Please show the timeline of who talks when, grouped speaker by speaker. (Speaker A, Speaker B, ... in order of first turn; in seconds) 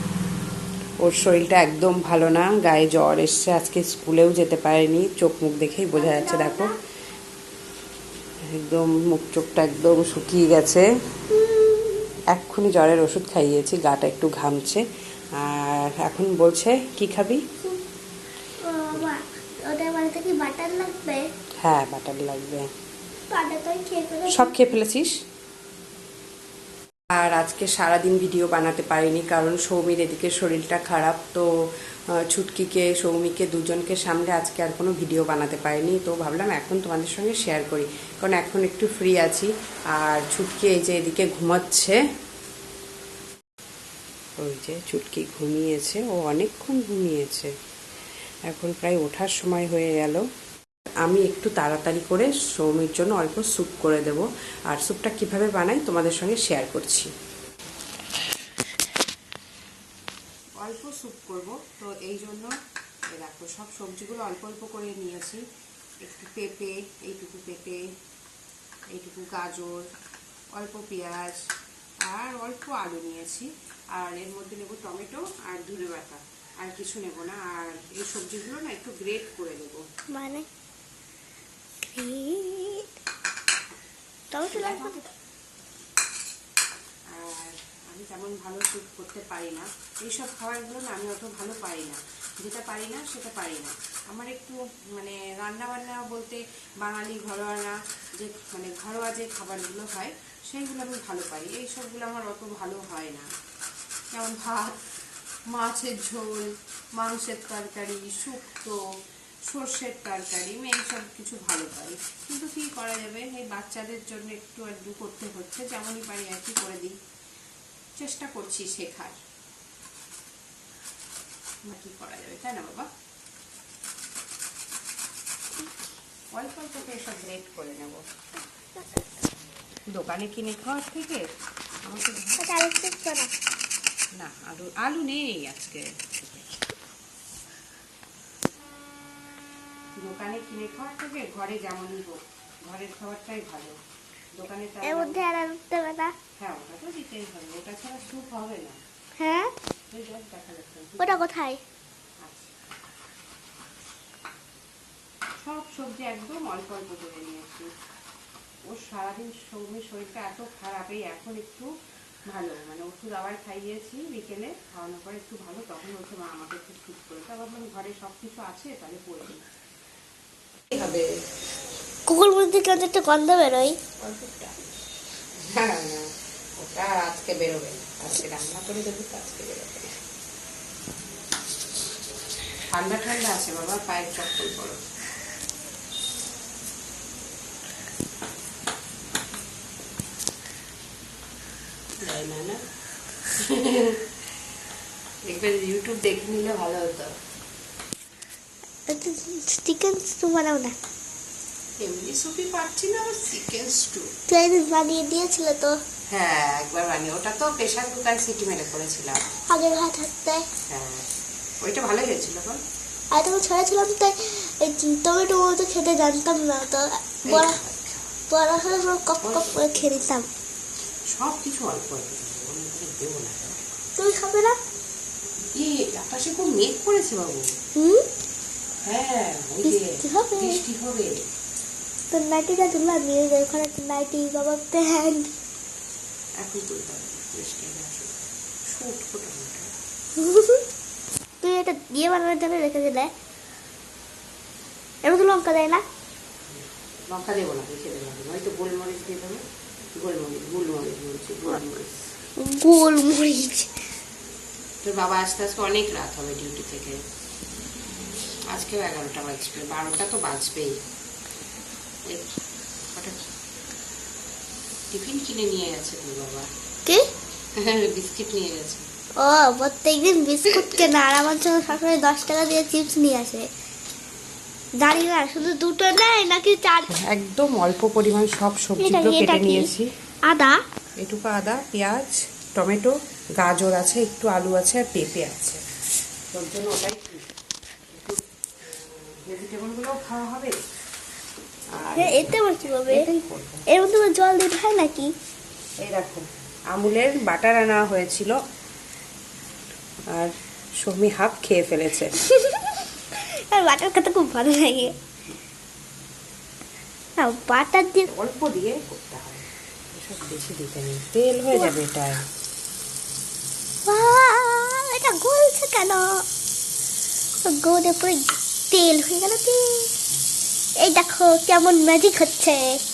Speaker A: 1.0-6.7, 8.4-10.9, 12.3-17.4, 21.6-22.7, 24.3-25.2, 27.1-31.5, 32.1-42.0, 44.4-47.5, 48.5-50.2, 51.0-57.1, 60.6-62.5, 63.1-65.4, 66.0-67.8, 68.9-69.9, 70.5-71.4, 72.0-79.8, 84.5-85.0, 87.1-103.3, 104.1-104.8, 105.5-108.8, 109.5-117.0, 118.0-119.2, 121.7-122.9, 126.3-128.0, 129.9-131.3, 131.8-132.4, 134.2-136.4, 140.0-143.8, 144.3-145.2, 146.4-148.8, 149.9-151.2, 152.2-152.6, 155.4-157.7, 158.7-161.7, 162.3-169.4, 170.7-171.1, 174.0-174.6, 175.4-179.9, 182.7-184.8, 192.0-192.6, 193.4-194.0, 195.3-197.1, 201.8-204.1, 206.1-209.2, 210.7-211.1, 211.6-212.6, 217.2-218.1, 219.2-219.8, 221.1-223.8, 225.5-227.5, 228.8-231.2, 236.4-239.7, 246.5-249.4, 250.0-252.1, 254.8-257.0, 258.5-260.8, 262.9-263.2, 264.9-266.5, 267.6-268.9, 276.9-279.9, 281.0-285.6, 286.3-287.3, 287.9-290.6, 291.7-292.4, 292.9-293.6, 295.8-298.4, 300.1-302.2, 308.1-312.2
Speaker B: 6.0-6.7, 11.3-12.0, 18.6-21.3, 23.3-24.5, 80.1-80.5, 81.9-82.9, 84.3-85.0, 132.4-133.3, 144.8-146.1, 149.2-149.5, 151.0-151.6, 172.1-173.8, 198.9-200.7, 204.3-205.8, 209.5-210.4, 213.1-217.6, 218.3-220.3, 224.0-224.6, 227.8-228.1, 229.6-230.6, 232.1-235.3, 240.2-240.6, 241.4-243.1, 245.0-245.8, 252.4-253.7, 269.2-273.5, 274.8-276.9, 278.8-279.7, 280.2-280.6, 291.9-293.0, 293.7-295.1, 302.2-304.9, 307.2-308.1, 313.9-316.2, 317.4-319.9, 320.8-322.7